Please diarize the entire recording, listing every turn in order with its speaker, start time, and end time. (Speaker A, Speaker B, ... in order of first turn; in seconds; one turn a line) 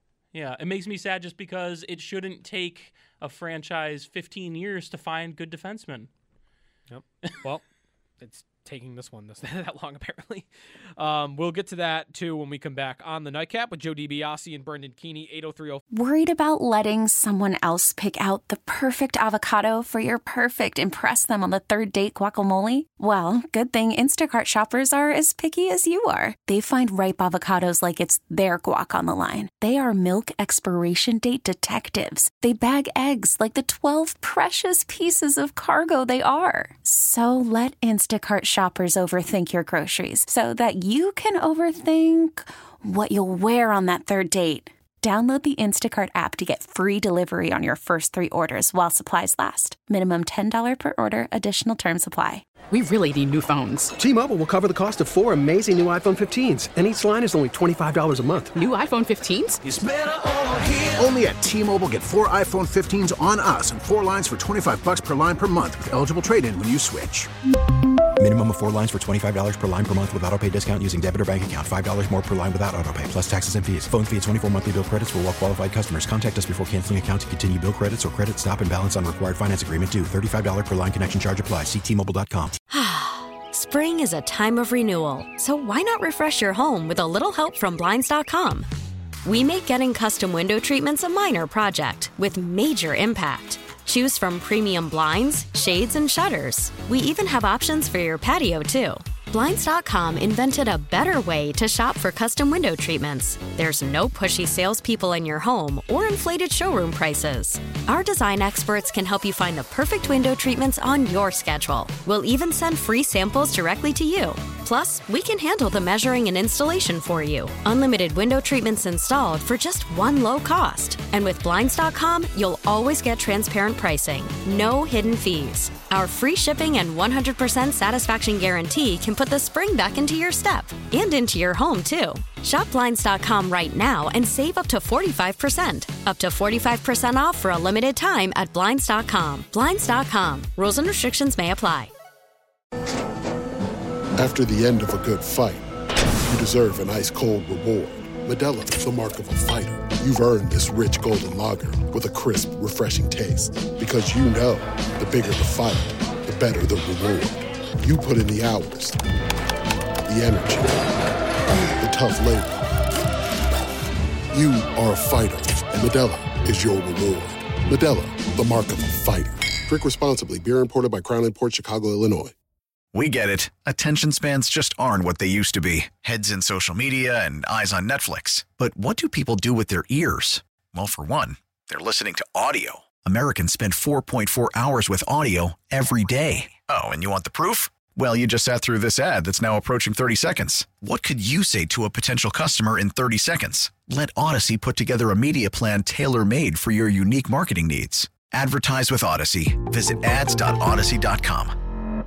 Speaker A: 0.3-6.1
Speaker B: 6.9-7.6
Speaker B: 8.2-15.8
Speaker C: 15.9-52.5
Speaker D: 52.7-54.0
Speaker E: 54.0-58.5
Speaker D: 58.5-59.6
Speaker F: 59.6-67.3
Speaker G: 68.2-82.6
Speaker H: 82.7-88.7
Speaker H: 89.2-141.9
Speaker I: 144.2-145.7
Speaker I: 146.3-159.0
Speaker I: 160.1-160.9
Speaker I: 161.8-162.6
Speaker I: 164.3-172.3
Speaker J: 172.9-201.6